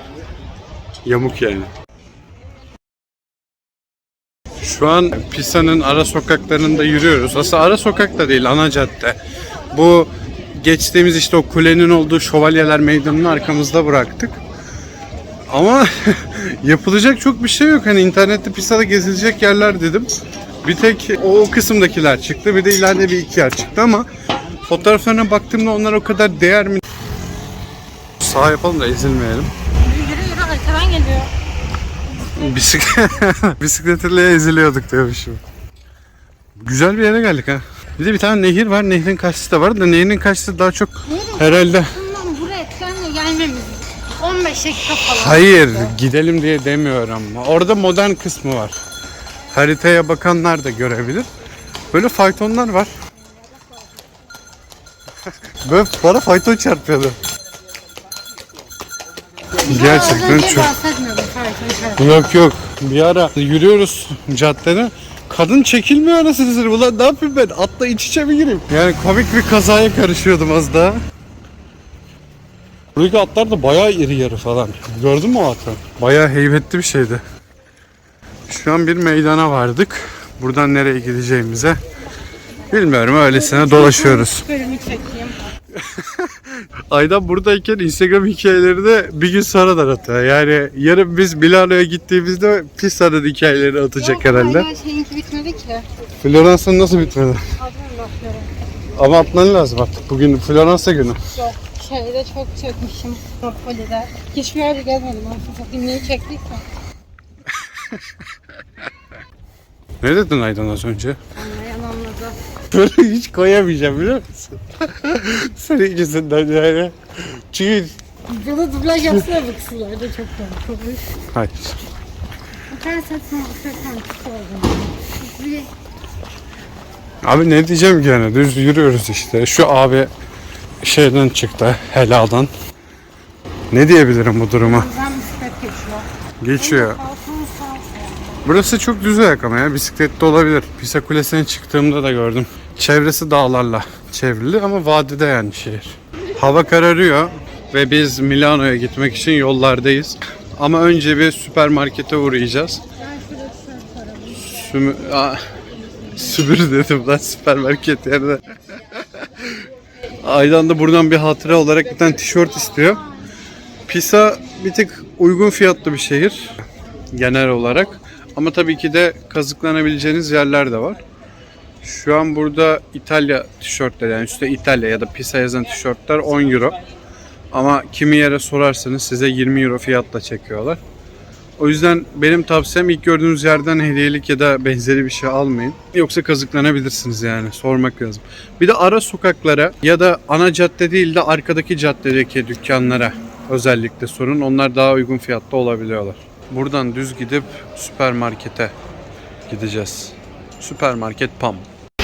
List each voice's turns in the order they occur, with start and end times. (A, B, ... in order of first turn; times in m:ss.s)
0:01.0-0:01.7 A
0:04.6-0:09.2 A
0:09.7-0:14.4 A
0:15.5-0:20.1 A
0:20.6-0:24.1 A
0:24.7-0:26.8 A
0:28.2-0:29.5 A
0:29.8-0:31.3 B
0:32.3-0:35.4 A
0:36.6-0:42.0 A
0:41.1-0:46.0 B
0:45.2-0:48.8 A
0:49.5-0:51.3 A
0:51.9-0:52.9 A
0:55.6-0:57.2 A
0:59.6-1:02.3 B
0:59.7-1:00.7 A
1:02.0-1:11.0 A
1:13.0-1:17.2 A
1:18.5-1:21.8 A
1:22.7-1:24.4 A
1:23.3-1:25.4 B
1:25.7-1:34.7 A
1:34.0-1:35.9 B
1:36.2-1:37.5 A
1:37.6-1:38.5 B
1:39.0-1:41.3 A
1:41.3-1:46.6 B
1:50.0-1:51.2 A
1:51.4-1:52.4 B
1:52.7-1:58.0 A
1:58.3-2:01.1 B
2:01.3-2:01.8 A
2:02.7-2:05.7 B
2:07.2-2:10.1 A
2:10.8-2:12.5 A
2:13.7-2:14.9 A
2:14.6-2:18.4 B
2:16.4-2:17.0 A
2:18.4-2:32.8 A
2:33.0-2:34.6 B
2:34.3-2:35.4 A
2:36.1-2:39.5 A
2:40.2-2:43.0 A
2:43.9-2:51.0 A
2:51.8-2:56.8 A
2:57.5-3:00.8 A
3:01.6-3:18.7 A
3:19.5-3:21.7 A